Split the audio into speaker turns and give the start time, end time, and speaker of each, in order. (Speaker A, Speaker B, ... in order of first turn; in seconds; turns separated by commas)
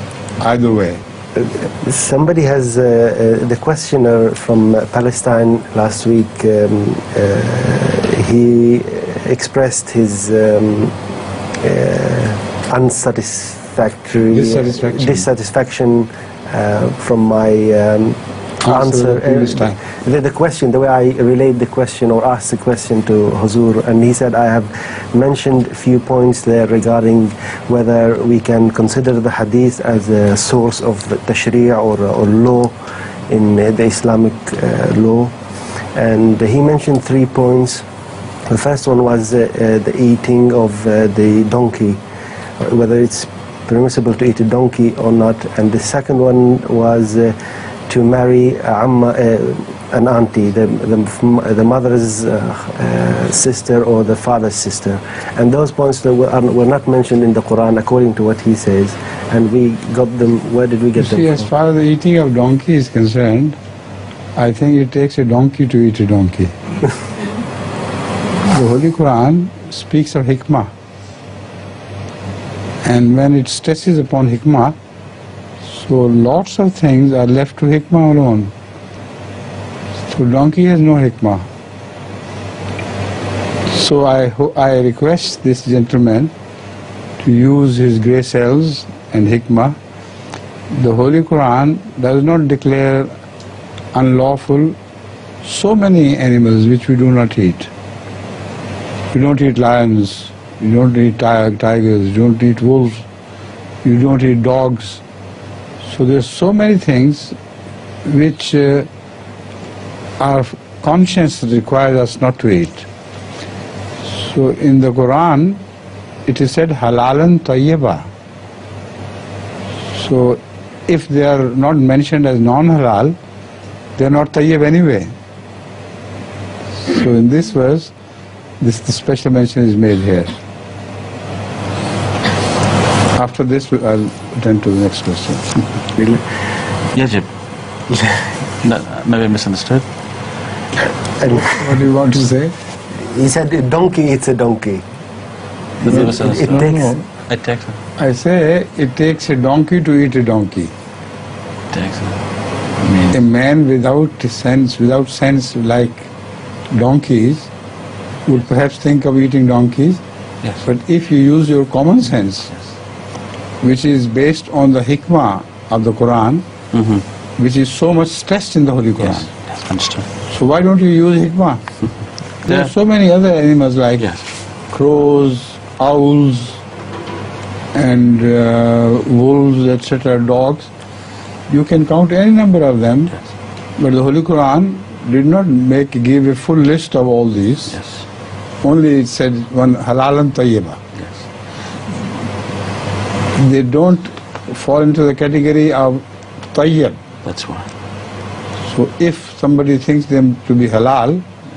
Speaker A: 0.4-1.0, Speaker B: 1.4-10.9, Speaker B: 11.6-32.7, Speaker A: 14.3-15.3, Speaker A: 18.6-19.8, Speaker B: 33.3-35.3, Speaker B: 35.9-37.8, Speaker B: 38.5-42.0, Speaker B: 42.6-47.3, Speaker B: 47.9-61.5, Speaker A: 61.0-63.6, Speaker A: 64.3-66.5, Speaker A: 68.4-70.7, Speaker A: 72.8-74.8, Speaker A: 75.6-78.5, Speaker A: 80.1-81.5, Speaker A: 83.7-86.3, Speaker A: 87.2-89.8, Speaker A: 90.7-93.1, Speaker A: 93.9-94.7, Speaker A: 95.4-97.7, Speaker A: 99.1-103.0, Speaker A: 103.8-105.0, Speaker A: 105.8-107.3, Speaker A: 108.0-108.9, Speaker A: 110.2-112.9, Speaker A: 114.0-115.6, Speaker A: 116.2-118.1, Speaker A: 119.9-123.2, Speaker A: 124.0-125.1, Speaker A: 126.8-127.9, Speaker A: 128.6-130.3, Speaker A: 133.1-135.6, Speaker B: 135.9-136.2, Speaker C: 136.9-137.3, Speaker C: 138.6-139.8, Speaker B: 141.2-141.7, Speaker A: 141.3-142.5, Speaker B: 142.9-144.8, Speaker C: 145.8-146.7, Speaker A: 145.8-147.0, Speaker B: 145.8-147.0, Speaker C: 147.2-147.8, Speaker A: 148.0-150.7, Speaker C: 151.7-152.2, Speaker C: 152.8-153.1, Speaker A: 153.1-156.1, Speaker A: 156.7-157.5, Speaker A: 158.2-160.0, Speaker A: 160.6-162.5, Speaker A: 163.6-166.4, Speaker C: 166.7-167.0, Speaker A: 167.4-169.3, Speaker C: 169.0-170.1, Speaker A: 170.3-171.6, Speaker A: 172.4-174.1, Speaker A: 174.7-176.6, Speaker A: 177.7-180.7, Speaker A: 181.5-183.2, Speaker A: 183.8-187.8, Speaker C: 187.7-188.0, Speaker A: 188.6-190.8, Speaker A: 193.3-197.0, Speaker C: 197.2-197.7, Speaker A: 198.6-201.2